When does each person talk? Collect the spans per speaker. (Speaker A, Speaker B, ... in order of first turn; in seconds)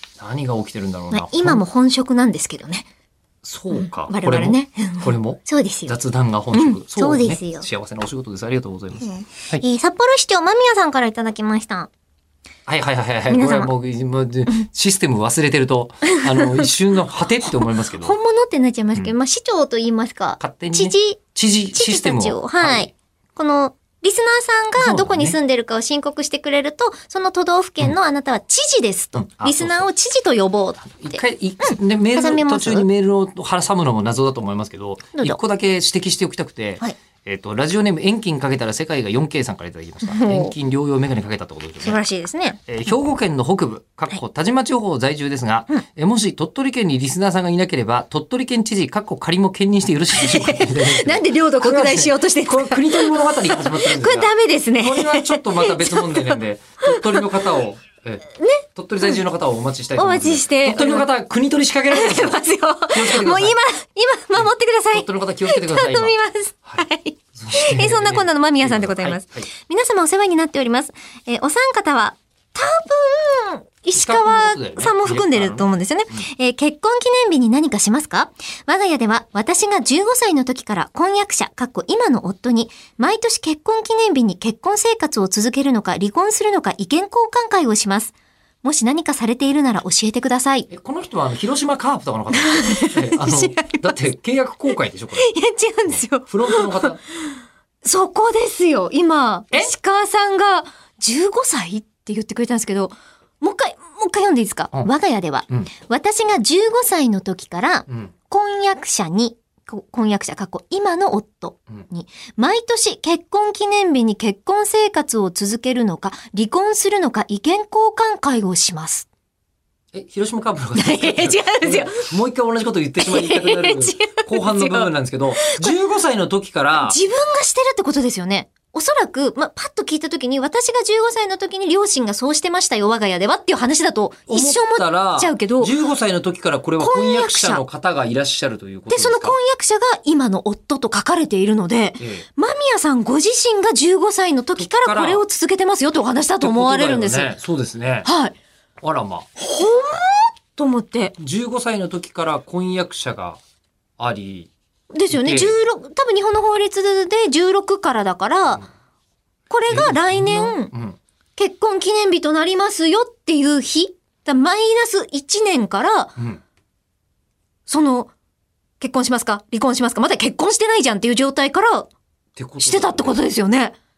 Speaker A: 0.2-1.6, 3.4-9.6, 12.7-18.2, 20.4-22.9, 24.8-25.4, 29.2-29.9, 30.9-42.0, 42.7-63.6, 64.4-66.8, 67.3-69.5, 73.9-76.2, 90.7-95.3, 95.9-97.0, 119.9-127.0, 134.3-139.4, 142.0-142.3, 144.6-145.2, 146.4-148.1, 148.8-149.3, 151.2-153.4, 154.0-154.5, 155.1-155.6, 159.7-161.0, 172.4-173.2
Speaker B: 1.1-2.9, 3.7-5.9, 6.5-7.7, 9.0-11.9, 13.3-13.7, 16.1-16.7, 18.0-21.2, 21.7-32.9, 40.0-40.5, 41.8-42.6, 50.2-57.3, 58.4-59.2, 60.0-61.1, 61.9-90.7, 92.3-93.9, 95.2-97.0, 97.8-119.1, 120.8-122.1, 123.0-125.8, 126.8-135.7, 136.8-137.6, 138.9-147.3, 148.1-148.3, 149.4-151.2, 154.9-158.6, 159.5-160.7, 161.4-166.2, 167.7-168.1, 168.8-171.9, 172.6-173.8